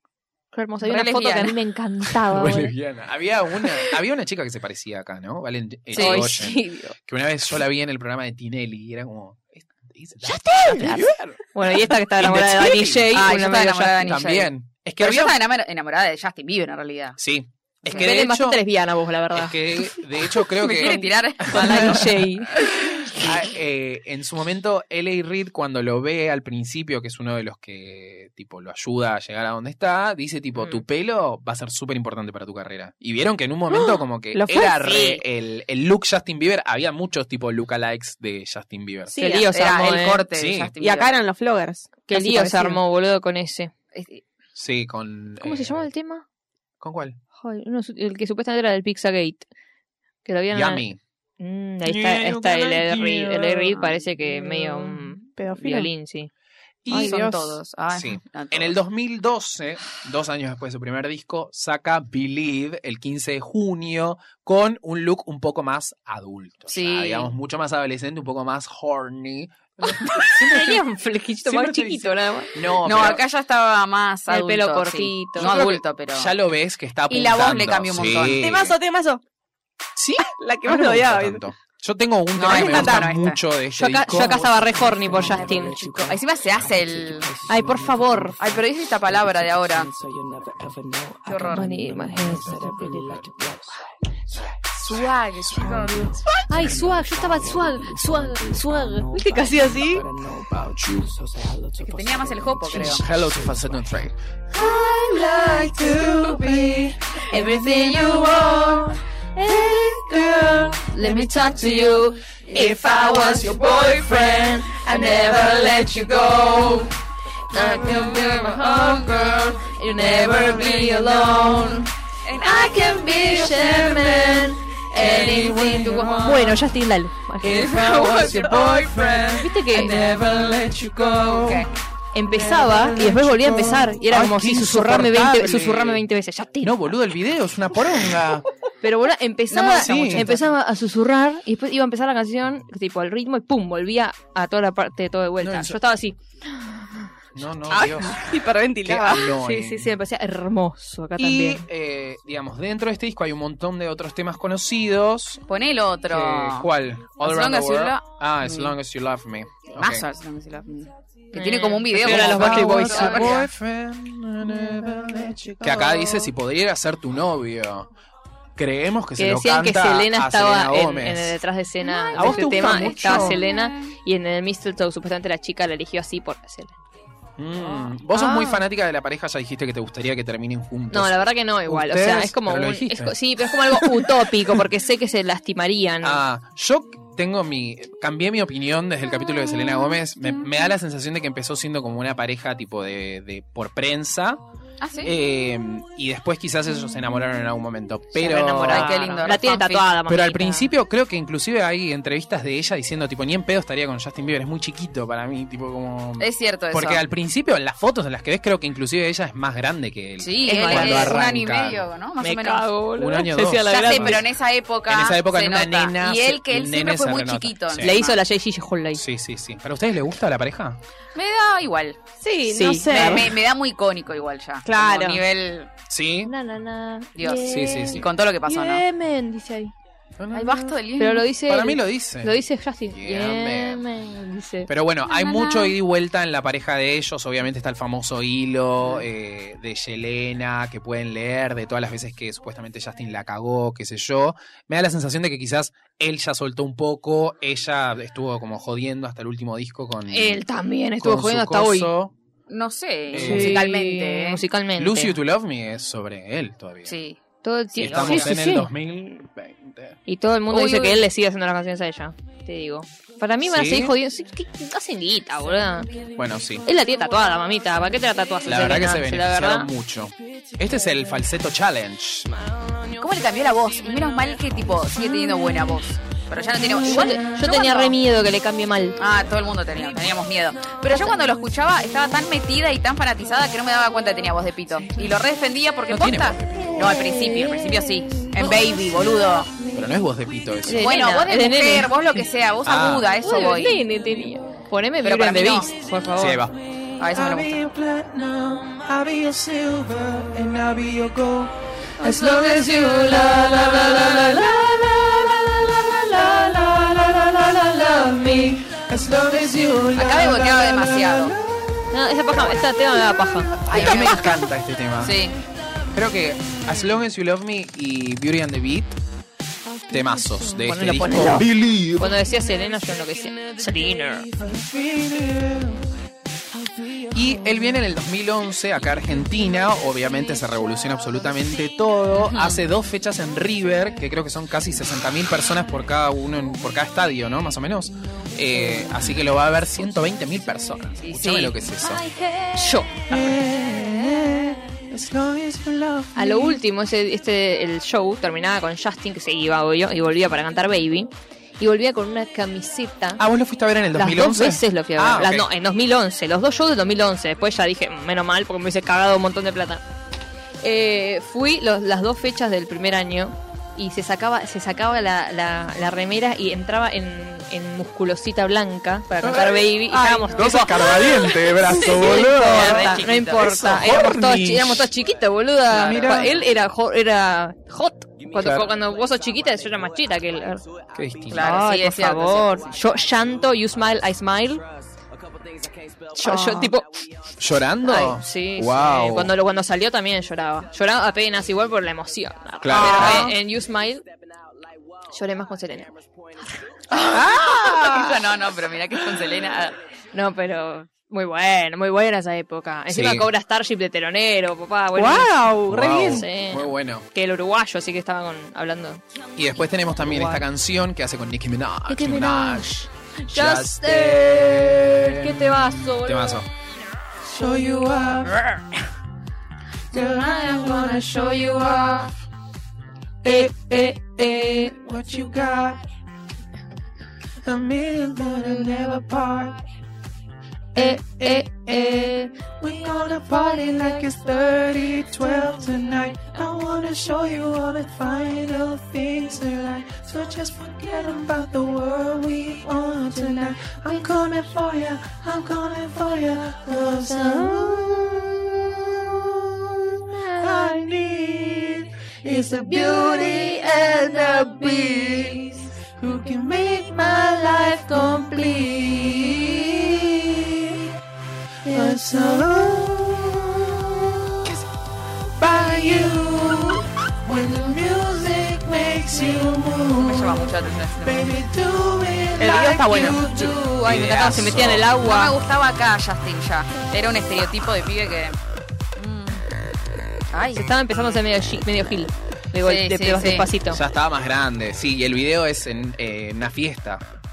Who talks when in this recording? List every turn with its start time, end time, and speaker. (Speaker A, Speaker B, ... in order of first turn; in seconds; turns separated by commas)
Speaker A: 0.5-2.7, Speaker B: 0.8-1.6, Speaker C: 2.2-11.5, Speaker B: 5.9-6.3, Speaker A: 5.9-7.0, Speaker A: 10.5-14.2, Speaker C: 12.2-13.1, Speaker B: 13.1-17.2, Speaker C: 14.0-15.3, Speaker C: 17.2-18.6, Speaker A: 17.9-19.6, Speaker C: 19.3-39.2, Speaker B: 20.4-22.3, Speaker A: 21.4-22.6, Speaker D: 33.7-35.2, Speaker D: 39.1-39.5, Speaker A: 39.2-40.2, Speaker B: 39.2-41.1, Speaker C: 40.3-40.7, Speaker D: 40.8-42.8, Speaker A: 42.1-43.7, Speaker B: 43.9-44.2, Speaker C: 44.5-45.9, Speaker A: 45.4-46.2, Speaker C: 46.8-47.2, Speaker A: 47.4-49.5, Speaker A: 50.2-50.8, Speaker C: 50.5-51.0, Speaker A: 51.4-56.3, Speaker C: 51.8-53.6, Speaker E: 52.0-53.9, Speaker D: 54.4-54.8, Speaker D: 55.4-55.9, Speaker C: 56.8-57.3, Speaker D: 56.9-57.4, Speaker B: 56.9-58.8, Speaker C: 57.9-70.8, Speaker B: 66.7-67.3, Speaker A: 70.0-72.5, Speaker C: 71.4-73.2, Speaker B: 72.8-76.3, Speaker A: 74.3-75.5, Speaker C: 75.4-78.8, Speaker B: 77.1-78.5, Speaker D: 78.4-79.2, Speaker C: 80.0-84.5, Speaker D: 80.2-81.4, Speaker B: 82.3-83.4, Speaker D: 82.4-83.0, Speaker A: 83.7-86.1, Speaker B: 85.9-87.4, Speaker A: 87.5-88.4, Speaker B: 88.4-89.9, Speaker B: 91.2-91.8, Speaker A: 91.4-93.2, Speaker B: 94.8-96.2, Speaker E: 95.6-97.0, Speaker A: 96.5-100.0, Speaker D: 99.1-100.0, Speaker C: 100.5-101.1, Speaker B: 101.8-103.0, Speaker C: 102.7-104.1, Speaker E: 104.5-116.9, Speaker A: 110.9-112.2, Speaker E: 117.5-126.7, Speaker A: 117.5-117.8, Speaker A: 119.7-121.8, Speaker B: 122.2-122.9, Speaker A: 123.3-124.3, Speaker B: 124.9-125.6, Speaker A: 124.9-128.2, Speaker E: 127.4-131.7, Speaker B: 127.5-129.4, Speaker A: 129.4-130.1, Speaker B: 131.4-131.7, Speaker A: 132.1-136.9, Speaker E: 132.2-134.0, Speaker C: 134.1-136.0, Speaker C: 136.6-138.5, Speaker A: 138.8-146.9, Speaker B: 139.5-140.4, Speaker C: 139.7-140.4, Speaker C: 145.4-145.8, Speaker C: 147.3-148.3, Speaker D: 147.7-149.3, Speaker C: 148.8-149.9, Speaker A: 149.2-151.6, Speaker C: 151.2-155.4, Speaker B: 155.5-158.7, Speaker C: 156.1-160.1, Speaker B: 159.7-163.5, Speaker A: 161.3-163.4, Speaker C: 161.9-165.0, Speaker E: 164.4-166.3, Speaker C: 165.6-167.9, Speaker C: 168.6-171.4, Speaker A: 169.2-176.7, Speaker C: 172.1-173.4, Speaker E: 172.2-173.2, Speaker B: 173.2-173.7, Speaker C: 177.4-184.1, Speaker A: 178.1-178.6, Speaker A: 180.9-186.2, Speaker C: 186.0-194.4, Speaker B: 194.8-195.1, Speaker C: 195.0-199.0, Speaker A: 198.1-200.7, Speaker B: 198.6-200.0, Speaker C: 200.1-211.8, Speaker B: 206.2-207.0, Speaker B: 210.2-212.7, Speaker A: 210.4-211.2, Speaker A: 212.2-214.2, Speaker C: 212.9-214.3, Speaker B: 213.7-218.2, Speaker C: 214.9-217.9, Speaker A: 217.8-219.0, Speaker C: 218.9-220.8, Speaker B: 221.1-222.0, Speaker D: 222.2-223.4, Speaker A: 222.5-223.3, Speaker B: 222.9-225.7, Speaker D: 224.6-225.2, Speaker C: 225.9-226.3, Speaker A: 226.2-229.7, Speaker B: 227.2-228.8, Speaker C: 227.4-228.1, Speaker C: 230.2-230.8, Speaker B: 230.3-231.3, Speaker A: 231.0-235.7, Speaker C: 231.4-232.4, Speaker C: 232.9-233.8, Speaker C: 234.7-250.4, Speaker A: 250.1-251.9, Speaker C: 251.0-252.1, Speaker B: 252.5-254.4, Speaker C: 253.1-253.6, Speaker A: 253.1-255.2, Speaker C: 254.8-256.9, Speaker B: 256.9-257.2, Speaker A: 257.4-258.7, Speaker B: 257.7-258.3, Speaker C: 257.8-260.0, Speaker A: 260.1-266.0, Speaker B: 260.5-261.0, Speaker C: 263.4-263.9, Speaker C: 266.1-266.6, Speaker A: 266.6-269.7, Speaker C: 268.4-272.3, Speaker B: 272.9-277.9, Speaker E: 276.8-277.6, Speaker A: 276.8-279.0, Speaker B: 279.0-289.5, Speaker C: 285.9-286.8, Speaker C: 289.7-290.9, Speaker A: 290.6-291.9, Speaker B: 290.8-293.8, Speaker C: 292.6-293.1, Speaker A: 293.2-296.4, Speaker B: 295.0-295.7, Speaker C: 296.1-296.5, Speaker B: 297.0-297.6, Speaker E: 297.1-314.2, Speaker B: 309.9-311.3, Speaker A: 311.9-314.2, Speaker C: 313.7-315.2, Speaker B: 315.0-315.4, Speaker C: 315.9-318.9, Speaker C: 319.9-322.1, Speaker E: 320.1-320.6, Speaker A: 320.6-324.3, Speaker E: 321.4-322.0, Speaker E: 324.2-325.9, Speaker E: 327.1-327.8, Speaker C: 327.1-342.1, Speaker B: 332.1-332.6, Speaker B: 341.0-341.6, Speaker A: 342.5-343.4, Speaker E: 343.1-346.6, Speaker A: 346.1-353.2, Speaker C: 353.2-355.5, Speaker A: 353.9-359.8, Speaker A: 360.6-380.6, Speaker E: 369.2-373.0, Speaker C: 369.9-374.9, Speaker B: 372.4-373.7, Speaker E: 373.8-374.2, Speaker C: 375.7-376.3, Speaker B: 375.7-376.1, Speaker C: 378.3-378.7, Speaker C: 380.9-381.6, Speaker B: 381.3-382.8, Speaker A: 381.3-384.6, Speaker A: 386.1-386.9, Speaker D: 386.2-386.6, Speaker C: 387.4-389.3, Speaker A: 387.8-394.0, Speaker C: 392.6-393.3, Speaker D: 392.8-393.2, Speaker A: 395.1-396.0, Speaker C: 396.9-397.9, Speaker B: 396.9-399.8, Speaker A: 400.1-409.0, Speaker C: 402.9-403.3, Speaker D: 404.9-406.2, Speaker C: 405.7-407.1, Speaker C: 409.4-416.5, Speaker A: 410.0-410.4, Speaker A: 411.9-416.4, Speaker E: 417.2-418.6, Speaker E: 419.9-422.1, Speaker E: 423.2-425.8, Speaker E: 427.4-429.6, Speaker E: 430.7-460.9, Speaker A: 452.9-453.4, Speaker A: 454.9-455.2, Speaker E: 461.6-464.6, Speaker E: 465.4-473.8, Speaker B: 470.0-471.3, Speaker D: 472.4-473.2, Speaker A: 473.3-475.4, Speaker C: 473.4-474.9, Speaker B: 475.0-478.4, Speaker B: 479.0-479.4, Speaker B: 480.3-480.6, Speaker A: 480.5-483.8, Speaker B: 482.6-483.5, Speaker C: 483.7-487.0